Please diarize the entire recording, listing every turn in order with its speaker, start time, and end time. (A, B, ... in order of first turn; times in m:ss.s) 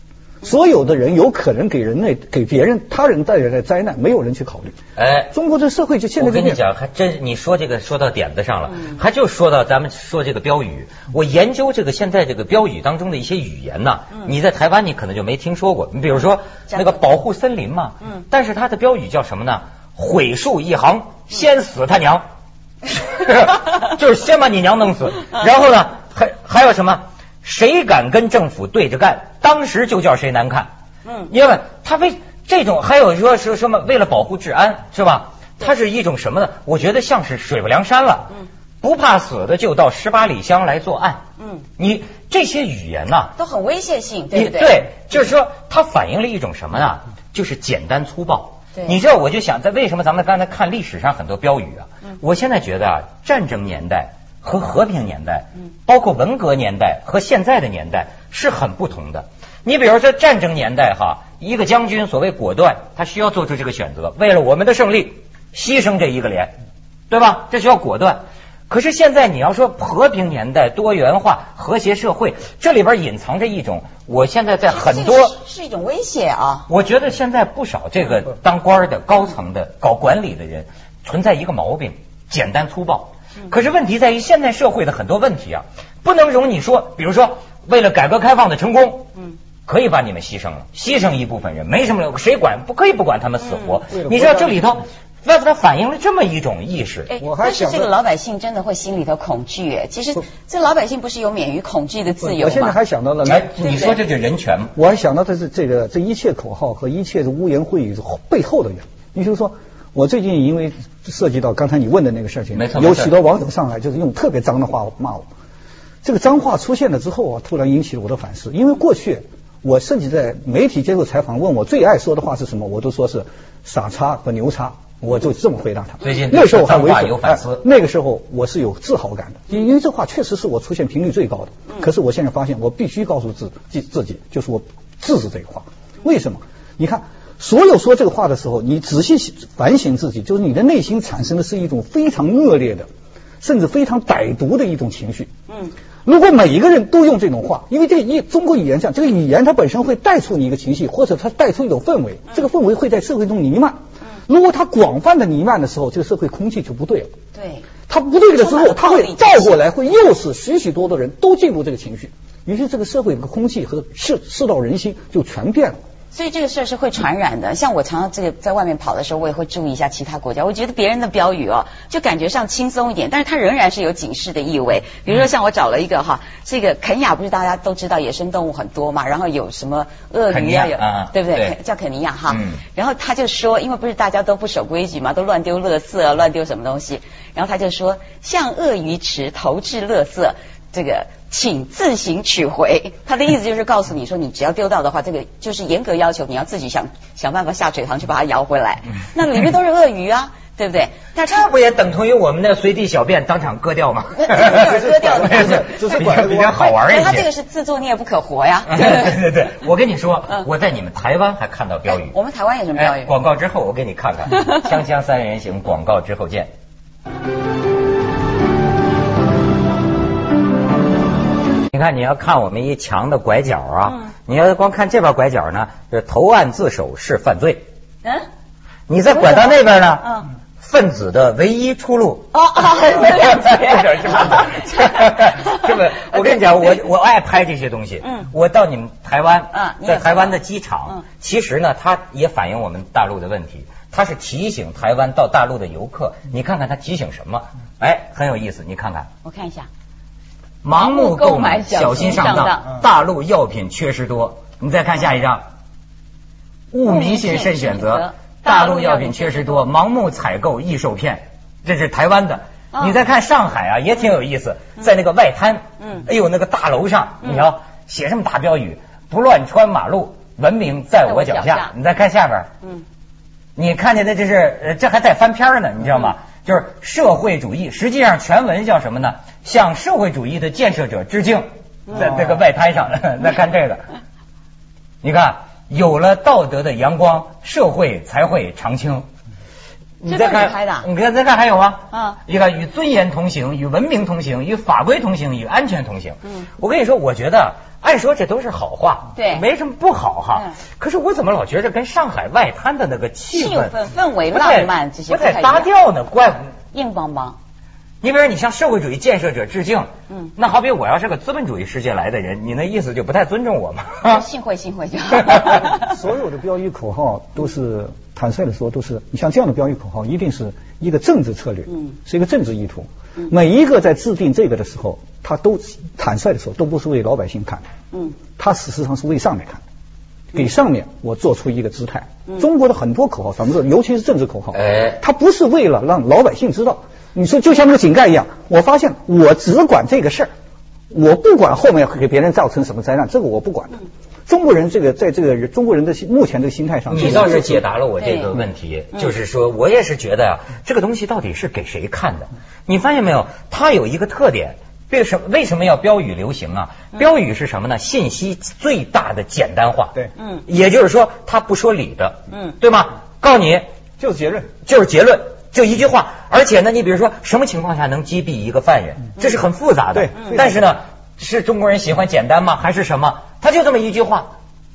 0:00.4-0:04.8 A
0:05.0-0:05.3 B
0:05.3-0:06.6 A
0:06.2-0:22.2 B
0:22.9-0:30.7 B
0:31.3-0:41.2 B
0:41.8-0:43.3 B
0:43.4-0:44.9 C
0:44.3-1:06.5 B
1:07.1-1:15.3 B
1:14.7-1:16.7 C
1:16.7-1:29.1 B
1:29.6-1:37.1 B
1:33.9-1:34.7 A
1:37.1-1:42.8 C
1:37.2-1:37.9 A
1:42.2-1:43.5 A
1:43.2-1:44.7 B
1:43.6-1:44.0 C
1:44.7-1:55.3 A
1:52.5-1:53.1 B
1:56.0-2:22.9 A
2:06.0-2:07.6 B
2:23.4-2:25.3 A
2:26.0-2:37.1 A
2:37.3-2:37.6 C
2:37.9-2:45.8 A
2:38.4-2:39.6 C
2:46.1-3:21.5 C
3:00.3-3:01.6 B
3:02.3-3:02.6 B
3:21.3-3:27.3 B
3:24.2-3:29.1 C
3:24.4-3:26.6 A
3:28.7-3:32.2 B
3:31.9-3:33.1 C
3:32.7-3:36.5 B
3:41.7-3:47.6 B
3:48.9-4:09.1 B
3:49.1-3:50.3 C
3:52.3-3:56.5 C
3:58.0-3:58.3 C
3:59.5-4:01.0 C
4:09.2-4:09.7 C
4:10.6-4:15.4 B
4:10.8-4:12.8 C
4:16.7-4:32.5 B
4:16.8-4:19.7 C
4:22.7-4:23.0 C
4:31.0-4:31.7 C
4:33.6-4:43.8 B
4:41.9-4:42.2 C
4:45.0-4:49.1 B
4:50.0-5:03.8 B
4:50.1-4:50.9 C
4:51.9-4:52.2 C
4:59.2-4:59.4 C
5:03.3-5:05.7 C
5:04.3-5:06.5 B
5:06.7-5:07.4 C
5:08.0-5:14.2 B
5:14.0-5:15.9 C
5:15.3-5:15.6 B
5:15.7-5:27.6 A
5:28.4-5:29.6 A
5:30.3-5:40.3 A
5:34.5-5:35.0 B
5:40.9-5:47.6 A
5:46.9-6:03.7 B
5:48.0-5:48.3 C
6:00.2-6:00.4 C
6:04.0-6:04.5 A
6:04.6-6:14.3 B
6:09.9-6:10.8 A